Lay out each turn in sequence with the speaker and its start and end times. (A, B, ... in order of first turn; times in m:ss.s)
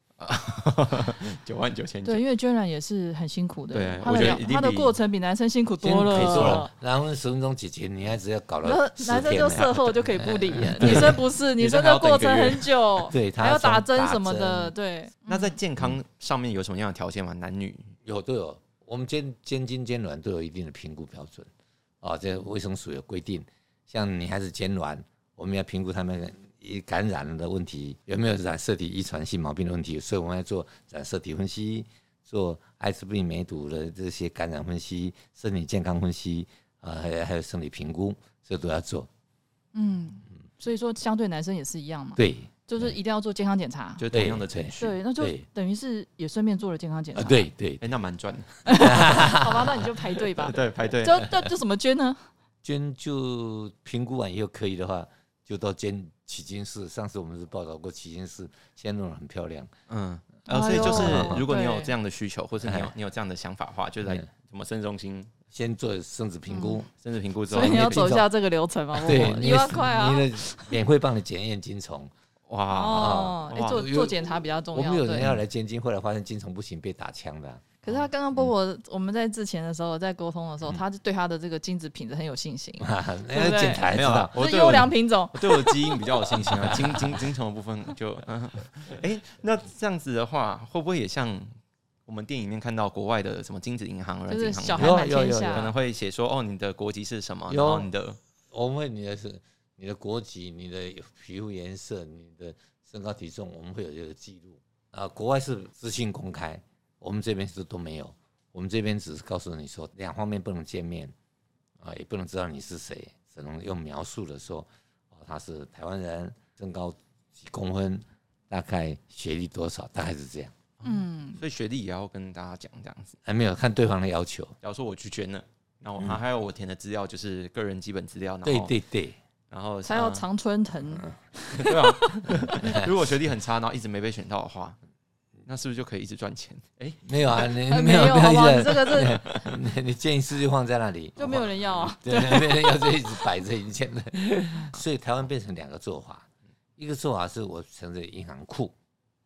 0:00.2-0:02.2 A
0:02.0-0:06.7 B
0:03.7-0:04.9 A
0:05.8-0:09.9 C
0:06.0-0:06.7 A
0:08.6-0:15.6 B
0:09.8-0:13.1 A
0:10.6-0:11.2 C
0:13.1-0:14.7 C
0:15.3-0:17.9 A
0:18.0-0:21.5 C
0:22.0-0:39.1 C
0:39.7-0:44.0 B
0:42.2-0:43.0 C
0:44.0-0:44.9 A
0:44.1-0:45.4 C
0:44.8-0:47.5 B
0:47.1-0:47.8 C
0:47.8-0:49.0 A
0:48.6-0:52.2 B
0:48.8-0:49.8 C
0:50.0-0:51.5 A
0:52.6-0:59.7 C
0:59.9-1:05.3 A
1:00.5-1:02.0 B
1:00.6-1:01.4 C
1:02.6-1:02.9 C
1:05.5-1:06.9 C
1:06.5-1:06.9 B
1:07.0-1:08.3 A
1:07.5-1:10.8 B
1:07.6-1:08.2 C
1:09.0-1:09.5 A
1:09.0-1:12.1 C
1:12.5-1:13.8 A
1:12.7-1:15.4 B
1:12.9-1:17.8 C
1:17.8-1:26.4 B
1:22.8-1:24.9 C
1:23.9-1:31.5 A
1:32.1-1:38.2 A
1:34.3-1:35.7 B
1:34.7-1:35.7 C
1:37.5-1:37.9 C
1:38.5-1:51.1 C
1:51.8-2:00.5 C
2:00.8-2:03.1 A
2:00.8-2:01.4 B
2:03.2-2:04.6 C
2:04.6-2:08.7 A
2:08.4-2:09.2 C
2:09.5-2:10.2 A
2:09.8-2:12.2 B
2:11.5-2:14.8 A
2:15.4-2:17.5 A
2:17.0-2:26.2 C
2:17.7-2:19.2 B
2:19.2-2:19.5 A
2:21.2-2:23.0 B
2:26.8-2:28.7 C